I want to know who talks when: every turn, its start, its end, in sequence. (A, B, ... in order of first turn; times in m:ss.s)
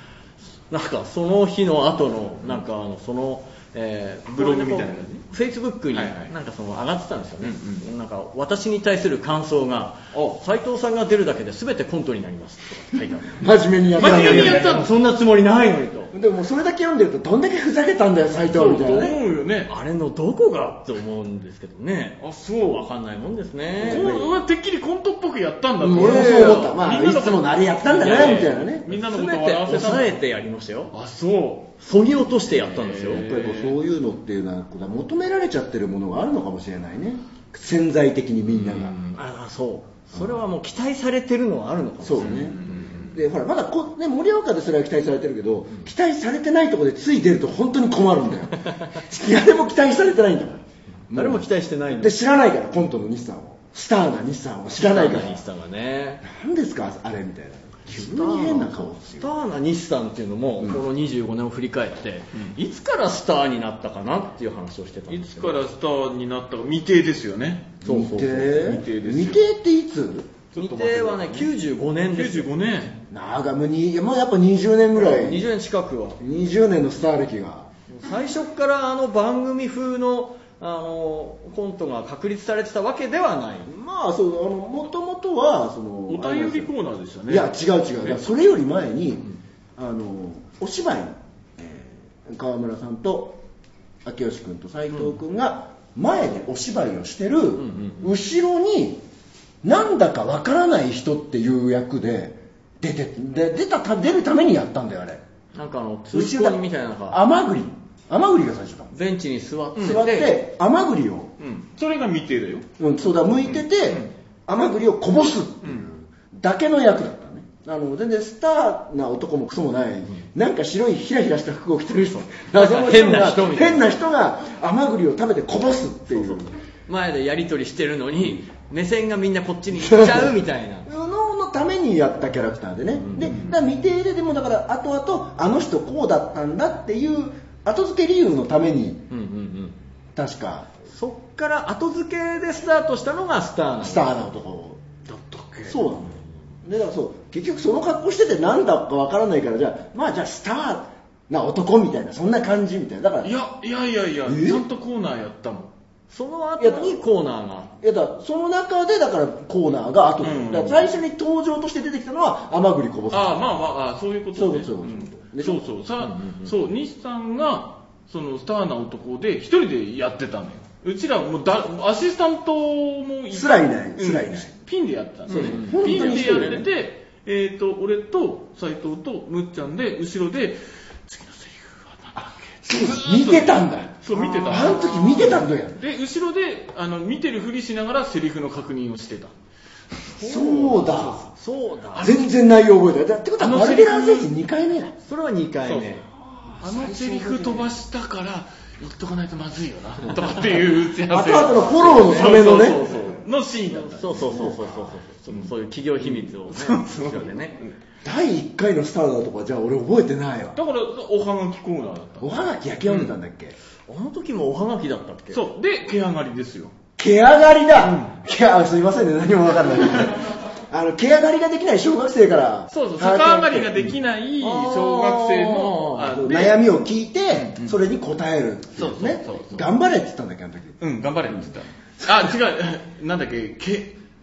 0:00.7-0:13.4 A
0:04.3-0:05.2 B
0:05.9-0:06.3 B
0:07.4-0:07.9 B
0:10.1-0:10.4 B
0:13.3-0:14.9 C
0:14.0-0:14.9 B
0:14.0-0:16.1 A
0:16.1-0:19.2 C
0:18.5-0:19.7 B
0:19.7-0:24.1 A
0:22.2-0:22.9 B
0:23.8-0:24.3 C
0:23.8-0:30.2 B
0:25.8-0:28.9 C
0:25.9-0:26.8 A
0:27.9-0:31.0 A
0:30.9-0:31.7 B
0:31.8-0:33.3 A
0:32.6-0:33.8 B
0:33.1-0:39.0 C
0:38.5-0:42.7 A
0:40.1-0:40.4 C
0:42.0-0:55.4 C
0:42.2-0:43.1 B
0:48.6-0:49.0 A
0:51.1-0:52.2 A
0:54.8-0:56.2 A
0:56.2-0:59.4 C
0:57.9-1:05.6 A
1:05.1-1:07.8 B
1:07.8-1:10.3 C
1:07.8-1:08.6 A
1:08.5-1:09.4 B
1:10.5-1:11.5 B
1:10.5-1:12.5 A
1:12.1-1:13.0 B
1:13.1-1:15.5 C
1:14.9-1:16.2 A
1:16.2-1:17.7 C
1:17.9-1:23.7 A
1:23.6-1:26.7 C
1:26.1-1:27.5 B
1:27.3-1:33.4 C
1:34.0-1:39.0 C
1:37.6-1:38.1 A
1:39.6-1:45.2 C
1:45.5-1:47.2 A
1:46.1-1:48.9 C
1:48.9-1:50.3 A
1:49.8-1:50.2 B
1:49.8-1:51.3 C
1:51.4-1:52.7 B
1:52.8-2:06.5 C
1:53.4-1:54.1 B
2:02.5-2:03.9 A
2:06.1-2:10.9 A
2:09.7-2:19.0 C
2:13.0-2:13.5 A
2:13.2-2:13.5 B
2:19.1-2:19.8 A
2:20.2-2:20.7 C
2:20.9-2:24.2 A
2:23.8-2:24.8 C
2:25.0-2:25.8 B
2:25.6-2:33.3 C
2:33.2-2:35.7 B
2:34.2-2:34.6 C
2:36.1-2:37.7 A
2:36.6-2:37.0 C
2:37.8-2:43.4 C
2:40.2-2:40.8 B
2:43.1-3:09.4 B
2:44.3-2:45.7 C
2:46.0-2:46.5 A
2:53.3-2:54.5 C
2:55.3-2:56.5 A
2:55.3-2:56.7 C
3:02.1-3:05.8 C
3:04.1-3:05.2 A
3:10.2-3:12.2 A
3:10.2-3:11.2 C
3:10.3-3:11.3 B
3:11.9-3:12.3 B
3:12.0-3:14.9 C
3:13.4-3:14.3 B
3:15.0-3:16.0 A
3:15.6-3:16.0 B
3:16.4-3:17.7 C
3:16.6-3:24.6 B
3:21.1-3:22.9 C
3:21.5-3:23.1 A
3:23.7-3:27.6 A
3:24.2-3:24.9 C
3:25.3-3:27.7 B
3:28.0-3:30.6 C
3:30.5-3:33.1 B
3:32.2-3:33.5 C
3:33.9-3:35.4 A
3:35.3-3:36.7 B
3:37.0-3:43.9 C
3:37.8-3:38.2 B
3:42.7-3:46.6 B
3:44.4-3:46.2 A
3:46.1-3:51.5 C
3:47.3-3:47.8 B
3:48.8-3:49.5 A
3:48.8-3:49.6 B
3:50.8-3:54.0 B
3:52.0-3:52.3 C